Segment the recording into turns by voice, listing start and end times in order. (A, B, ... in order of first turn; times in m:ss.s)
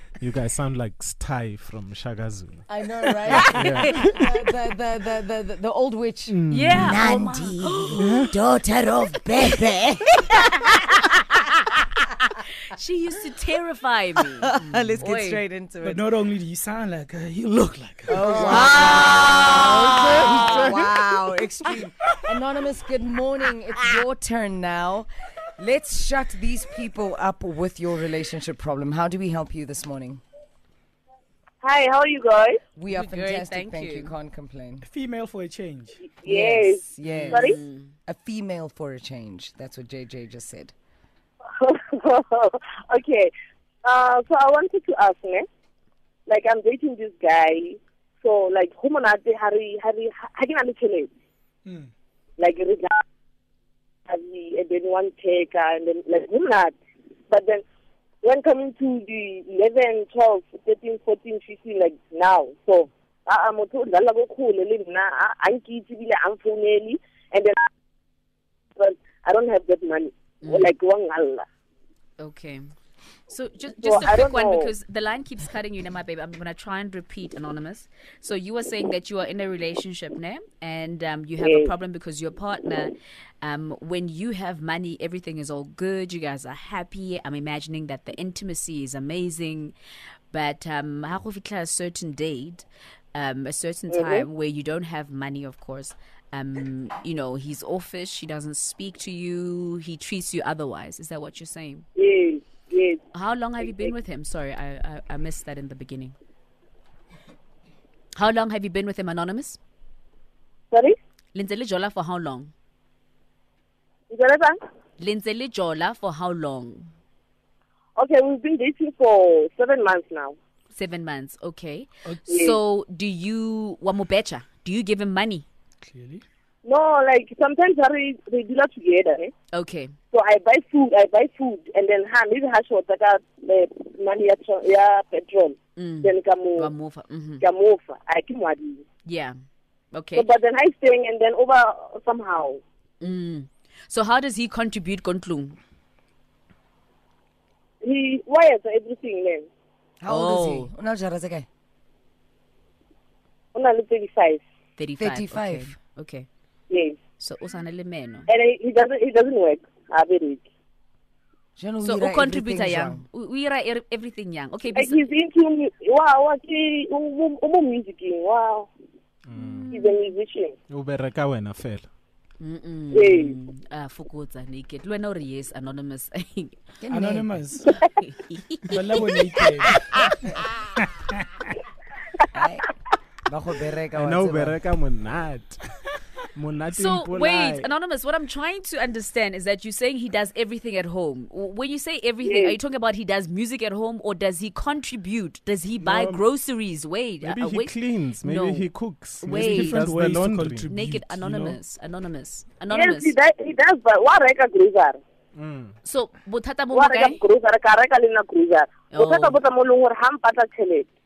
0:00.2-0:04.2 A
0:02.7-0:10.4 B
0:03.3-0:04.1 C
0:06.3-0:07.0 A
0:06.5-0:08.1 C
0:10.4-0:11.1 C
0:12.7-0:15.4 C
0:14.6-0:16.0 B
0:15.8-0:19.2 D
0:18.1-0:30.2 B
0:18.2-0:20.7 C
0:31.6-0:32.5 E
0:32.7-0:34.8 B
0:32.9-0:34.1 C
0:34.8-0:36.1 D
0:36.2-0:40.7 B
0:36.3-0:36.8 E
0:37.0-0:37.9 C
0:41.6-0:43.3 E
0:43.9-0:45.4 E
0:46.3-0:51.1 E
0:52.4-0:52.9 E
0:54.1-0:56.7 E
0:57.3-0:57.6 E
0:58.2-1:07.5 E
1:08.8-1:11.4 E
1:10.4-1:10.7 C
1:12.2-1:12.7 C
1:13.3-1:29.7 C
1:13.9-1:14.7 E
1:30.3-1:41.8 C
1:42.0-1:43.0 E
1:43.1-1:46.1 C
1:48.1-1:49.6 C
1:51.3-1:52.5 C
1:54.1-1:54.5 E
1:55.0-1:56.9 C
1:58.0-2:00.3 E
2:00.7-2:05.4 C
2:05.8-2:06.2 D
2:06.7-2:09.3 E
2:09.5-2:09.9 C
2:10.1-2:16.7 E
2:15.8-2:17.4 C
2:17.4-2:18.8 E
2:19.0-2:19.4 C
2:19.9-2:20.2 C
2:20.2-2:22.6 E
2:23.0-2:25.6 C
2:27.8-2:29.4 E
2:30.0-2:31.5 B
2:30.1-2:30.7 C
2:33.6-2:34.4 E
2:34.8-2:36.3 C
2:35.0-2:35.8 B
2:37.2-2:38.3 C
2:38.3-2:40.5 E
2:41.6-2:43.0 B
2:41.8-2:45.1 C
2:44.8-2:48.7 E
2:49.3-2:49.7 A
2:49.3-2:50.1 C
2:49.7-2:50.5 E
2:50.7-2:51.9 A
2:52.4-2:56.6 C
2:52.9-2:53.3 E
2:56.8-2:57.3 B
2:56.9-2:57.7 D
2:58.0-2:58.8 C
2:58.7-3:00.1 D
3:02.3-3:02.7 B
3:03.2-3:04.6 B
3:04.0-3:07.7 A
3:06.7-3:18.7 C
3:15.8-3:16.2 A
3:17.2-3:20.7 A
3:19.2-3:19.8 C
3:19.3-3:21.6 D
3:20.6-3:23.1 C
3:22.7-3:25.0 E
3:25.3-3:25.7 A
3:25.8-3:27.2 C
3:26.8-3:30.8 E
3:28.9-3:29.4 C